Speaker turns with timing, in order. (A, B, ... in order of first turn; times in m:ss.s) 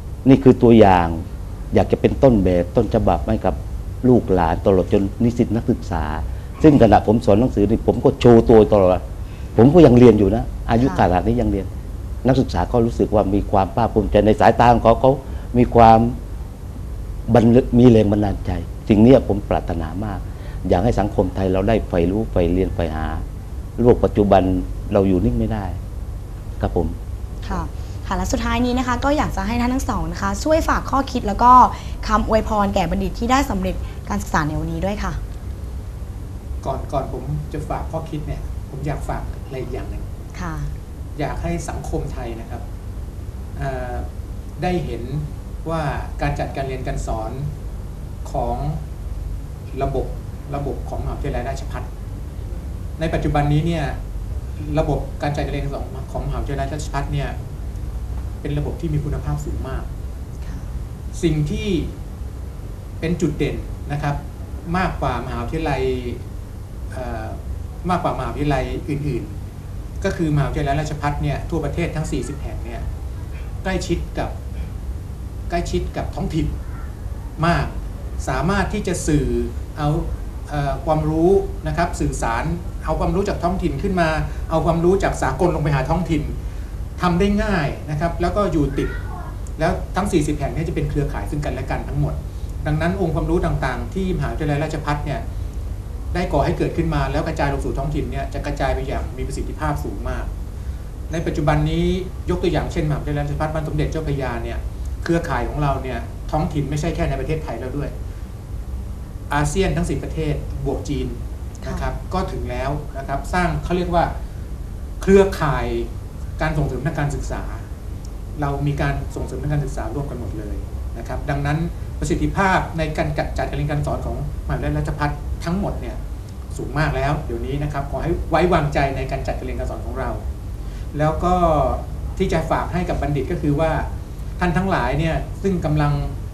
0:00.2-0:09.0 A
0:09.6-0:11.7 A
0:12.2-0:16.2 A
0:17.3-0:23.2 A
0:23.8-0:25.8 A
0:26.6-0:27.0 A
0:27.4-0:35.2 B
0:36.6-0:40.1 C
0:40.4-0:40.7 B
0:41.2-0:42.6 C
0:43.6-0:44.1 C
0:44.6-0:47.5 C
0:48.2-0:48.8 C
0:49.7-0:51.9 C
0:53.0-0:54.0 C
0:54.6-0:57.4 C
0:58.4-0:59.9 C
1:01.1-1:02.0 C
1:03.0-1:06.2 C
1:06.9-1:09.3 C
1:10.0-1:12.9 C
1:13.6-1:14.4 C
1:15.5-1:16.6 C
1:17.4-1:26.4 C
1:27.0-1:29.0 C
1:29.6-1:35.2 C
1:36.1-1:40.3 C
1:41.1-1:47.9 C
1:49.3-1:54.1 C
1:51.6-1:51.9 B
1:55.0-1:57.7 C
1:58.4-2:06.0 C
2:06.5-2:10.2 C
2:10.9-2:13.9 C
2:14.4-2:16.2 C